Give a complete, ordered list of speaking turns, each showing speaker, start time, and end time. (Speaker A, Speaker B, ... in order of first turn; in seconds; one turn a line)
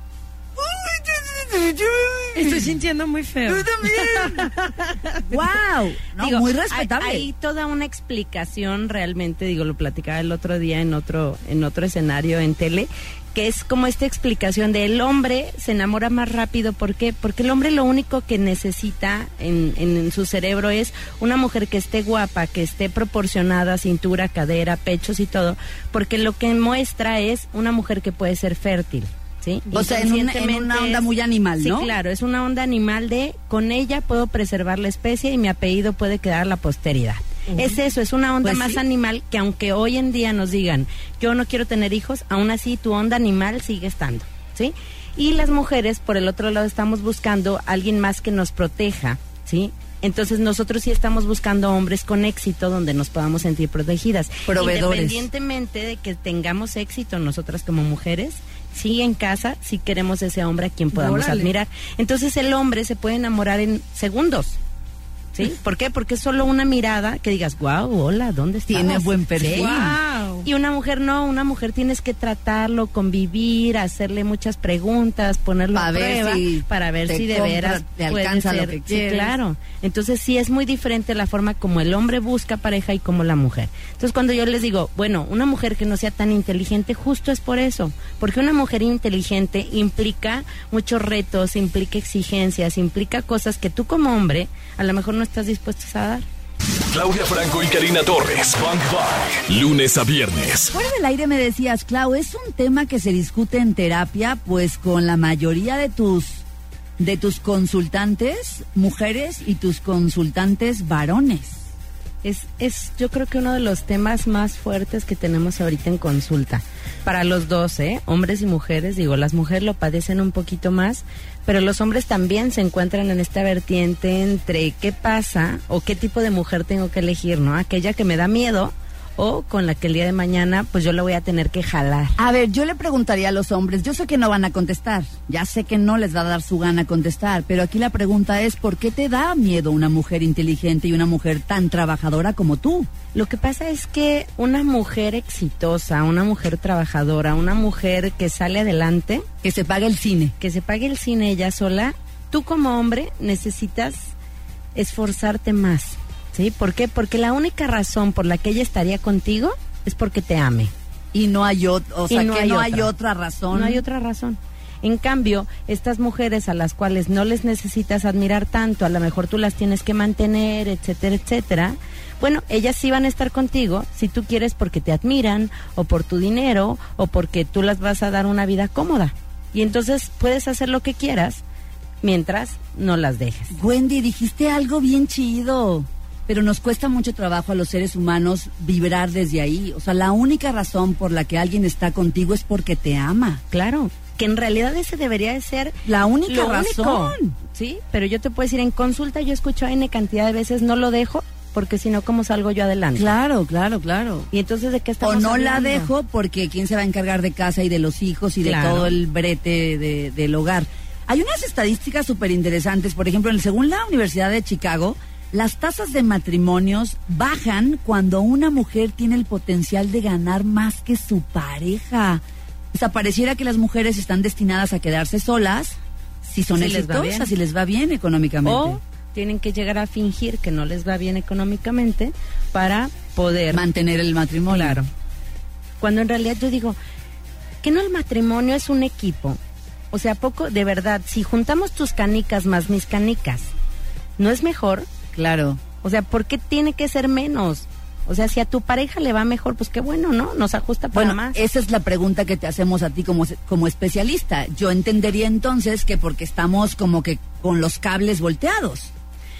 Speaker A: 0.6-2.8
Speaker B: 2.4-5.2
Speaker A: 3.5-4.5
Speaker A: 5.3-7.3
Speaker C: 6.2-64.6
Speaker A: 29.7-31.9
Speaker A: 38.4-38.8
Speaker A: 54.5-55.2
Speaker B: 60.9-61.5
Speaker C: 65.3-69.9
Speaker A: 68.7-70.0
Speaker B: 69.5-70.5
Speaker C: 70.4-96.3
Speaker A: 75.7-79.4
Speaker D: 96.9-100.7
Speaker A: 100.7-106.4
Speaker A: 107.0-111.6
Speaker C: 112.2-132.2
Speaker A: 132.2-142.9
Speaker C: 143.1-149.3
Speaker A: 149.4-150.3
Speaker C: 150.4-154.2
Speaker C: 154.8-160.7
Speaker A: 161.1-163.8
Speaker C: 162.1-162.9
Speaker C: 163.5-181.4
Speaker C: 182.0-183.6
Speaker A: 183.5-193.4
Speaker C: 193.5-203.1
Speaker A: 195.9-197.4
Speaker A: 202.9-204.3
Speaker C: 204.3-205.9
Speaker A: 205.0-222.2
Speaker C: 208.4-208.9
Speaker A: 222.7-228.8
Speaker C: 226.5-227.3
Speaker C: 228.4-233.6
Speaker A: 233.5-234.8
Speaker C: 234.5-234.9
Speaker C: 235.8-236.8
Speaker C: 237.6-239.4
Speaker C: 239.9-243.5
Speaker C: 244.2-244.9
Speaker A: 245.1-245.6
Speaker C: 245.8-251.4
Speaker A: 250.9-258.9